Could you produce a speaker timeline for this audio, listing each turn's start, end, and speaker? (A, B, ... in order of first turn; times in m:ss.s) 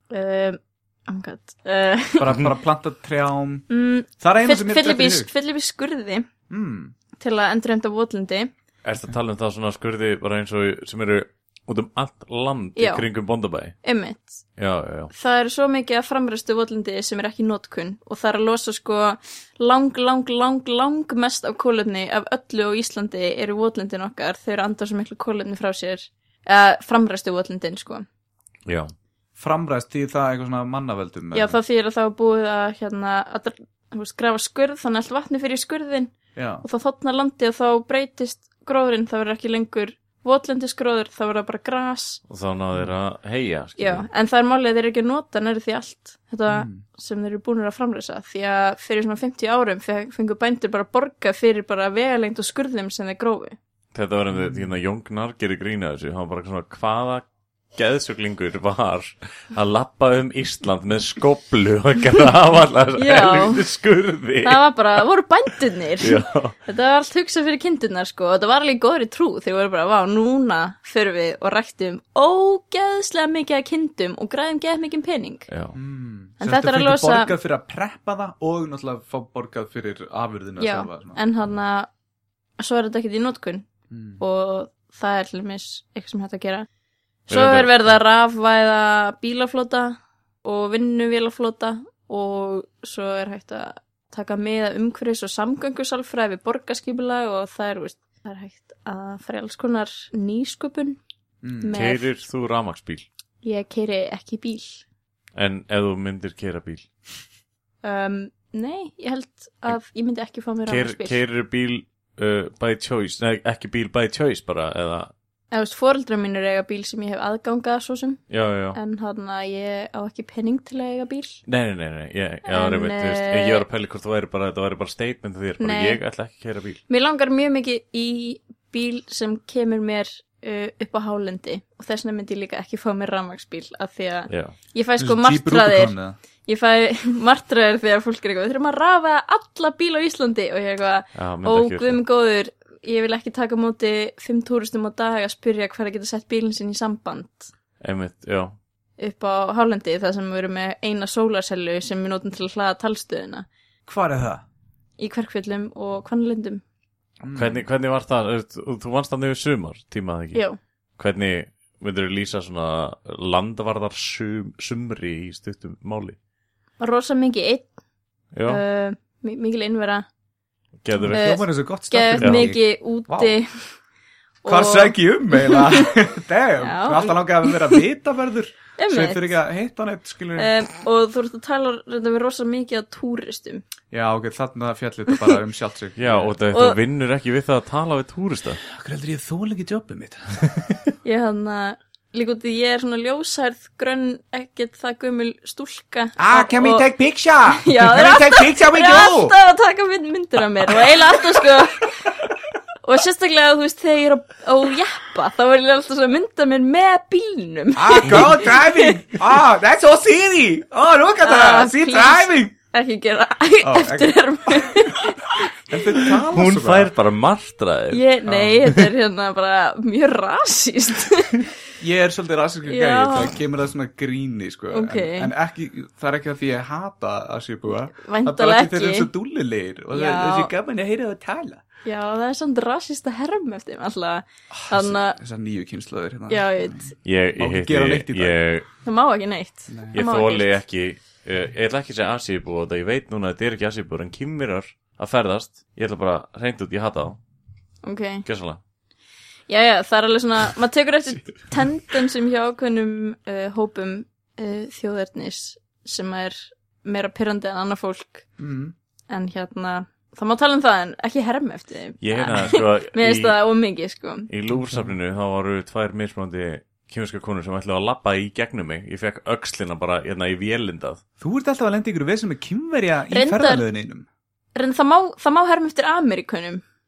0:00.1-0:02.4 A
0:02.2-0:03.6 B
0:03.7-0:06.3 A
0:04.2-0:05.3 B
0:06.5-0:06.9 B
0:07.2-0:08.5 A
0:08.8-0:13.8 C
0:12.8-0:13.0 A
0:13.8-0:14.4 A
0:14.6-0:15.1 C
0:15.1-0:28.0 A
0:28.6-0:28.9 C
0:29.4-0:31.6 B
0:31.3-0:42.2 A
0:36.3-0:36.6 B
0:42.3-0:44.1 C
0:43.8-0:53.6 A
0:46.5-0:46.8 B
0:53.9-1:04.6 C
0:54.3-0:54.7 B
1:03.0-1:03.7 A
1:04.4-1:15.5 A
1:06.0-1:06.5 C
1:15.5-1:15.8 C
1:15.7-1:21.2 B
1:16.4-1:17.3 A
1:20.6-1:21.9 A
1:22.6-1:23.7 A
1:23.9-1:24.2 B
1:24.2-1:26.7 A
1:27.3-1:41.0 A
1:27.3-1:27.9 C
1:41.4-1:41.7 B
1:41.6-1:42.1 A
1:41.7-1:43.0 C
1:43.4-1:44.8 A
1:45.3-1:46.9 C
1:47.8-1:51.2 A
1:50.7-1:55.1 C
1:55.5-1:58.2 A
1:58.3-1:58.8 C
1:58.7-2:01.4 A
2:01.4-2:06.8 C
2:02.4-2:03.6 A
2:05.6-2:06.0 A
2:06.9-2:27.5 A
2:14.3-2:14.5 C
2:15.0-2:16.2 B
2:21.1-2:22.0 C
2:27.8-2:28.6 C
2:29.0-2:33.5 A
2:33.8-2:34.4 B
2:35.0-2:36.6 A
2:37.2-2:37.6 B
2:37.3-2:40.4 C
2:41.0-2:46.2 C
2:46.8-2:47.6 A
2:48.3-2:48.6 C
2:48.5-2:50.0 A
2:50.8-2:51.3 C
2:51.0-2:53.3 B
2:51.1-2:53.7 A
2:52.2-2:52.5 C
2:54.4-2:55.9 A
2:54.4-3:00.5 B
2:56.6-2:57.8 A
2:58.8-2:59.4 A
3:00.4-3:03.6 A
3:03.9-3:06.4 B
3:06.0-3:08.6 C
3:06.5-3:06.8 A
3:08.6-3:10.6 B
3:11.0-3:16.9 A
3:16.2-3:19.3 B
3:17.5-3:22.1 A
3:22.8-3:29.1 A
3:27.8-3:32.5 B
3:31.2-3:35.6 A
3:33.6-3:35.1 B
3:35.7-3:36.9 B
3:36.3-3:38.0 C
3:37.9-3:41.5 A
3:38.3-3:38.6 B
3:41.8-3:51.6 B
3:42.6-3:43.4 A
3:44.7-3:45.3 A
3:48.0-3:49.1 A
3:49.9-3:50.5 A
3:51.8-3:55.2 A
3:54.5-3:58.4 B
3:56.3-3:56.9 A
3:57.0-3:58.6 C
3:58.8-4:00.6 A
3:59.7-4:00.0 B
3:59.9-4:07.2 C
4:07.8-4:08.2 A
4:08.2-4:08.6 C
4:09.5-4:18.2 A
4:18.4-4:18.7 B
4:19.1-4:24.3 A
4:22.0-4:23.4 C
4:24.3-4:31.0 C
4:24.5-4:24.9 B
4:31.2-4:34.1 B
4:33.1-4:33.6 A
4:34.5-4:36.6 A